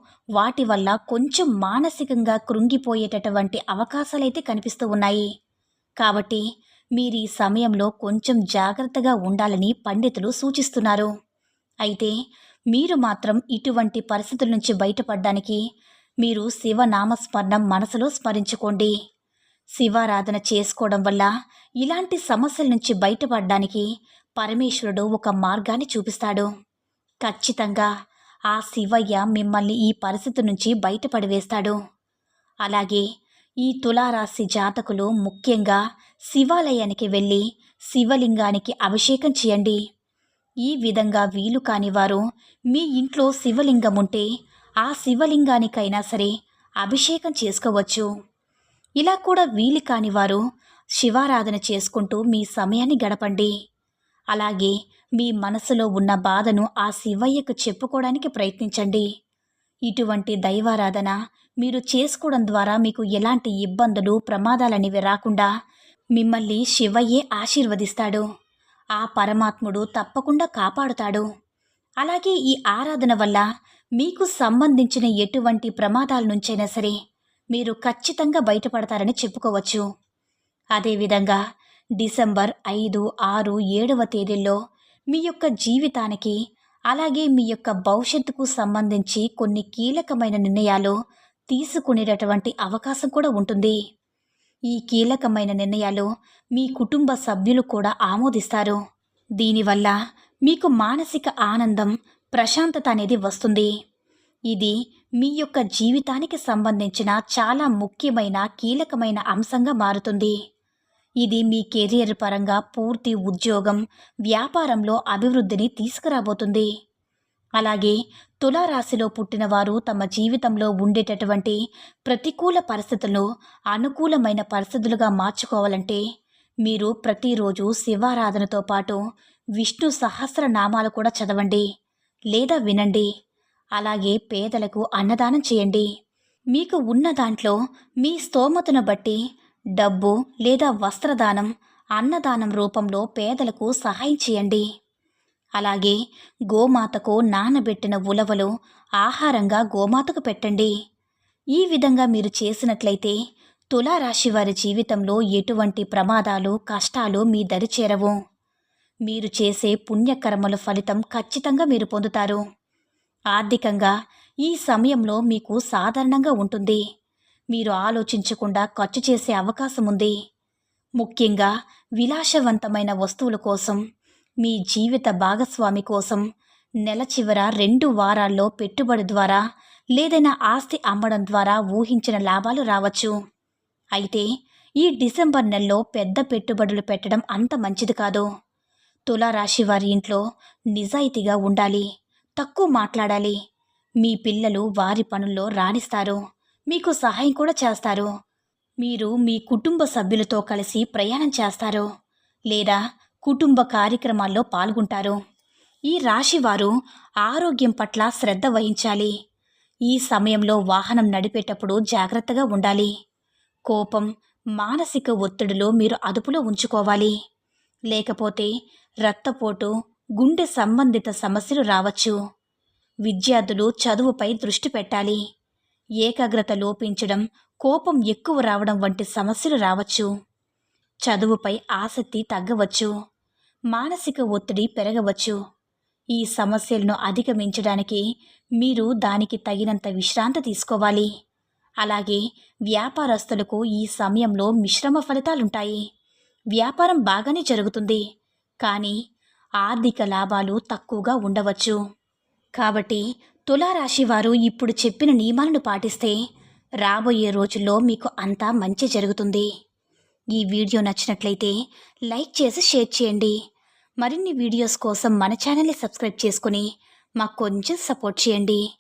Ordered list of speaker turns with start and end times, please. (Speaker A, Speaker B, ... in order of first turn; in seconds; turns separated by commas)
Speaker A: 0.4-5.3, Speaker A: 6.0-6.4, Speaker A: 7.0-11.1, Speaker A: 11.8-12.1, Speaker A: 12.7-15.6, Speaker A: 16.2-18.9, Speaker A: 19.8-21.3, Speaker A: 21.8-23.9, Speaker A: 24.4-26.5, Speaker A: 27.2-27.9, Speaker A: 28.5-31.8, Speaker A: 32.6-33.0, Speaker A: 33.6-35.8, Speaker A: 36.3-39.8, Speaker A: 40.7-42.2, Speaker A: 42.7-44.3, Speaker A: 44.8-46.3, Speaker A: 46.8-48.1, Speaker A: 49.0-50.4, Speaker A: 51.0-53.5, Speaker A: 54.3-59.0, Speaker A: 59.9-65.5, Speaker A: 66.2-68.2, Speaker A: 69.0-71.3, Speaker A: 72.0-73.5, Speaker A: 74.0-77.0, Speaker A: 77.5-79.8, Speaker A: 80.8-81.4, Speaker A: 82.0-84.6, Speaker A: 85.1-86.4, Speaker A: 86.9-91.0, Speaker A: 91.5-93.8, Speaker A: 94.7-98.8, Speaker A: 99.4-99.9, Speaker A: 100.5-103.7, Speaker A: 104.5-110.3, Speaker A: 111.2-116.7, Speaker A: 117.6-126.0, Speaker A: 126.7-129.0, Speaker A: 129.6-131.6, Speaker A: 132.3-133.1, Speaker A: 133.8-135.9, Speaker A: 136.6-139.2, Speaker A: 139.8-144.7, Speaker A: 145.6-146.0, Speaker A: 146.5-148.5, Speaker A: 149.0-150.7, Speaker A: 151.6-153.2, Speaker A: 153.7-158.2, Speaker A: 159.1-162.4, Speaker A: 163.3-163.9, Speaker A: 164.4-166.8, Speaker A: 167.5-170.1, Speaker A: 171.0-173.8, Speaker A: 174.4-176.2, Speaker A: 176.9-179.4, Speaker A: 180.0-183.1, Speaker A: 184.0-184.3, Speaker A: 184.8-188.3, Speaker A: 189.1-190.2, Speaker A: 190.8-191.9, Speaker A: 192.4-193.4, Speaker A: 194.0-196.2, Speaker A: 196.7-198.1, Speaker A: 198.8-201.9, Speaker A: 202.5-205.2, Speaker A: 205.9-206.7, Speaker A: 207.2-209.1, Speaker A: 209.9-212.9, Speaker A: 213.7-217.1, Speaker A: 217.9-218.5, Speaker A: 219.1-222.2, Speaker A: 223.1-225.2, Speaker A: 226.0-230.1, Speaker A: 231.1-232.9, Speaker A: 233.7-235.4, Speaker A: 236.2-238.0, Speaker A: 238.6-241.1, Speaker A: 241.8-245.8, Speaker A: 246.6-248.0, Speaker A: 248.6-249.0, Speaker A: 249.6-251.8, Speaker A: 252.6-256.2, Speaker A: 256.8-259.5, Speaker A: 260.3-261.6, Speaker A: 262.1-263.4, Speaker A: 264.0-266.7, Speaker A: 267.2-268.6